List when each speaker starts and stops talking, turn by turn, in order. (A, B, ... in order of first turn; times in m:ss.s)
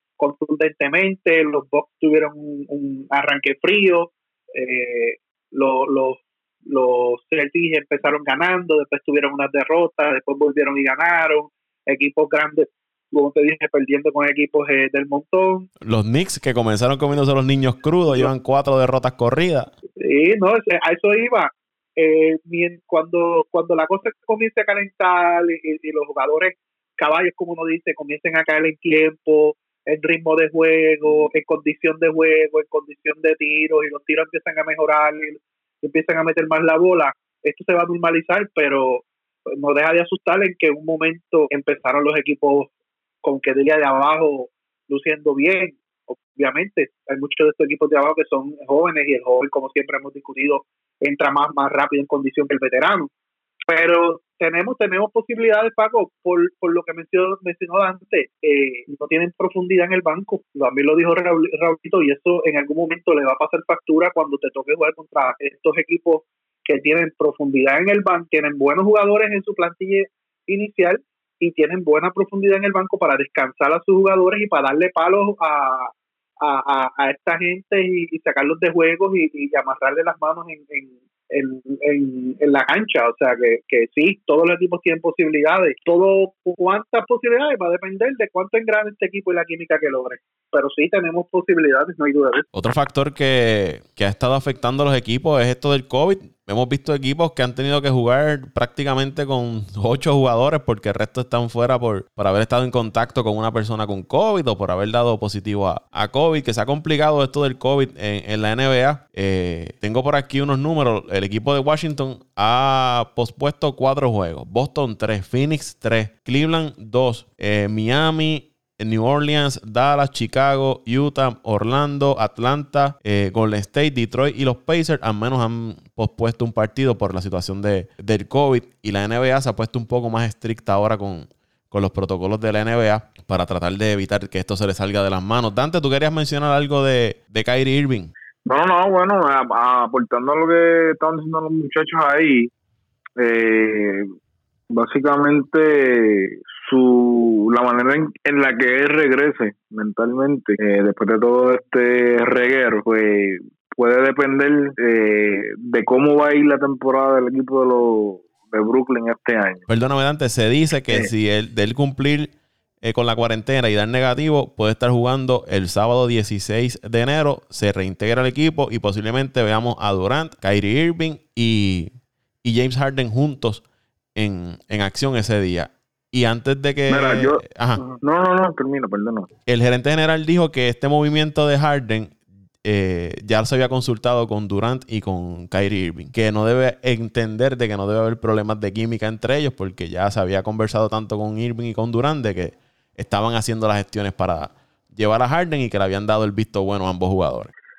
0:00.2-0:15.7 A
0:15.8-0:19.7 B
0:20.0-0:39.0 A
0:39.6-0:42.7 A
0:43.2-0:53.1 A
0:53.7-1:15.9 A
1:16.4-1:32.5 A
1:32.5-2:18.1 B
2:18.4-2:22.5 C
2:23.2-2:24.1 C
2:24.7-2:39.6 C
2:39.7-2:51.9 B
2:52.4-2:53.6 B
2:54.2-2:57.8 B
2:56.9-2:59.3 C
2:59.4-3:17.5 B